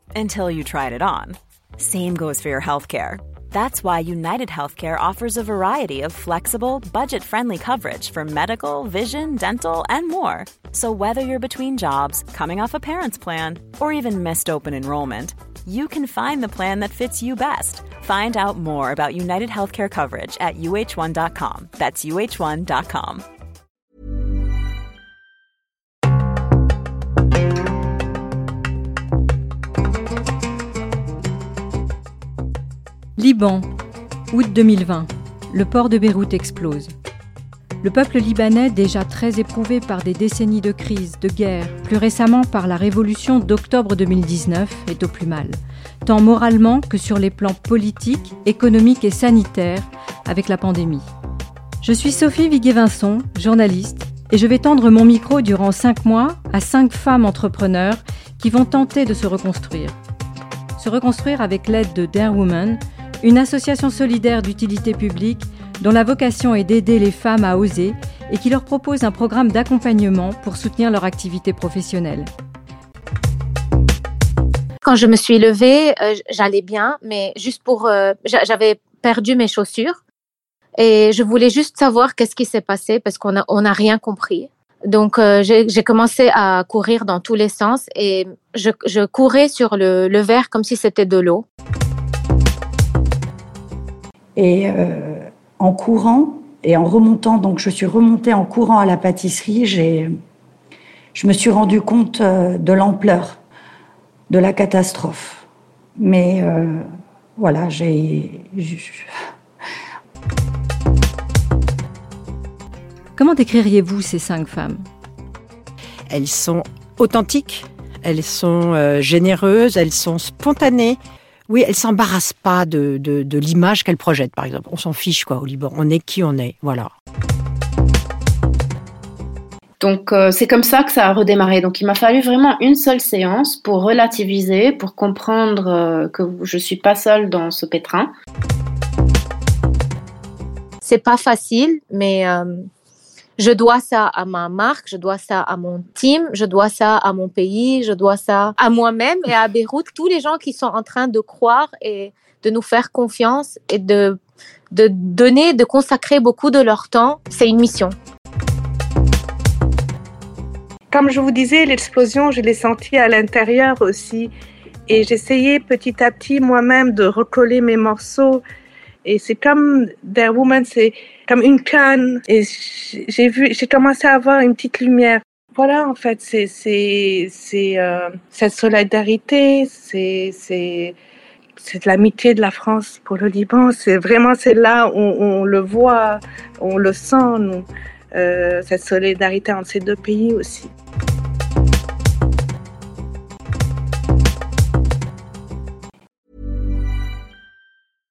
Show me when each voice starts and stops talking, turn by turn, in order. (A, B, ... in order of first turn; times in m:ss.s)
0:00.1-0:23.2 A
0:33.2-0:33.7 B
0:34.3-0:36.9 B
0:37.8-0:51.0 B
0:51.8-1:00.0 B
1:00.8-1:12.3 B
1:14.8-1:20.0 C
1:20.8-1:31.4 C
1:34.4-1:40.1 D
1:41.1-1:43.4 D
1:44.3-1:45.4 D
1:46.0-1:46.8 D
1:47.4-1:49.0 D
1:53.1-1:54.8 B
1:56.1-2:06.9 E
2:09.8-2:18.1 F
2:20.8-2:22.5 C
2:23.4-2:34.2 C
2:34.7-2:38.0 C
2:40.9-2:44.3 G
2:44.9-2:48.4 G
2:49.0-3:00.9 G
3:01.6-3:10.7 G